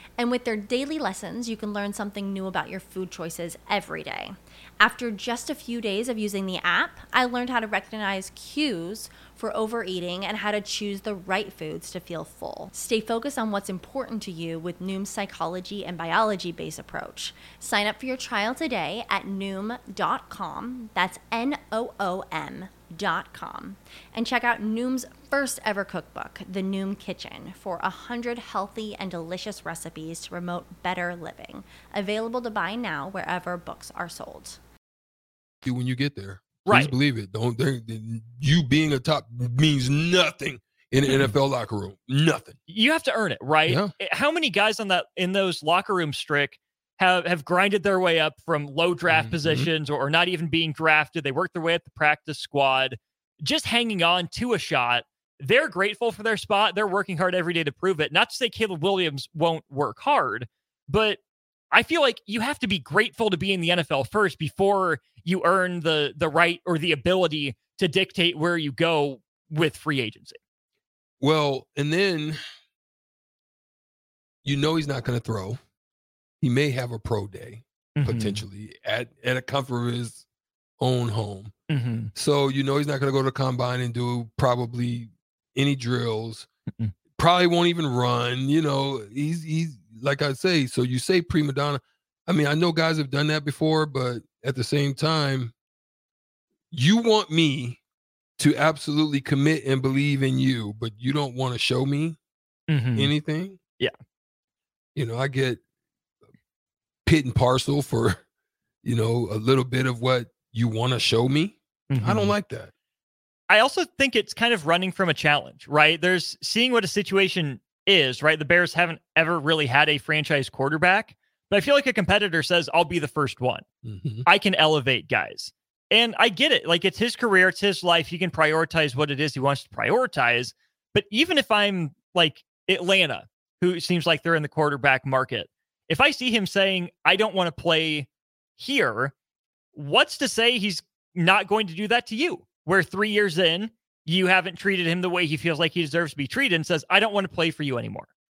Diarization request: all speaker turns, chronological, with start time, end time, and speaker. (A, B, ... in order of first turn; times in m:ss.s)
0:00.2-0:34.6 A
0:35.6-0:42.6 B
0:36.6-0:36.9 C
0:41.1-0:41.3 C
0:42.7-1:01.2 C
0:43.7-0:43.9 B
0:49.1-0:49.7 B
1:01.7-1:10.4 C
1:11.2-1:12.4 B
1:14.4-1:15.6 B
1:16.4-1:20.2 B
1:18.0-1:18.4 C
1:20.8-1:21.5 B
1:21.7-1:22.1 C
1:22.1-1:26.5 B
1:27.2-1:35.5 B
1:36.7-1:37.8 B
1:38.4-1:42.2 B
1:42.7-1:43.2 C
1:43.0-1:43.6 B
1:45.0-1:45.6 B
1:47.0-1:48.2 B
1:48.8-1:52.7 B
1:51.9-1:52.3 C
1:53.5-2:03.6 C
2:03.8-2:04.3 B
2:04.3-2:19.1 C
2:19.7-2:28.1 C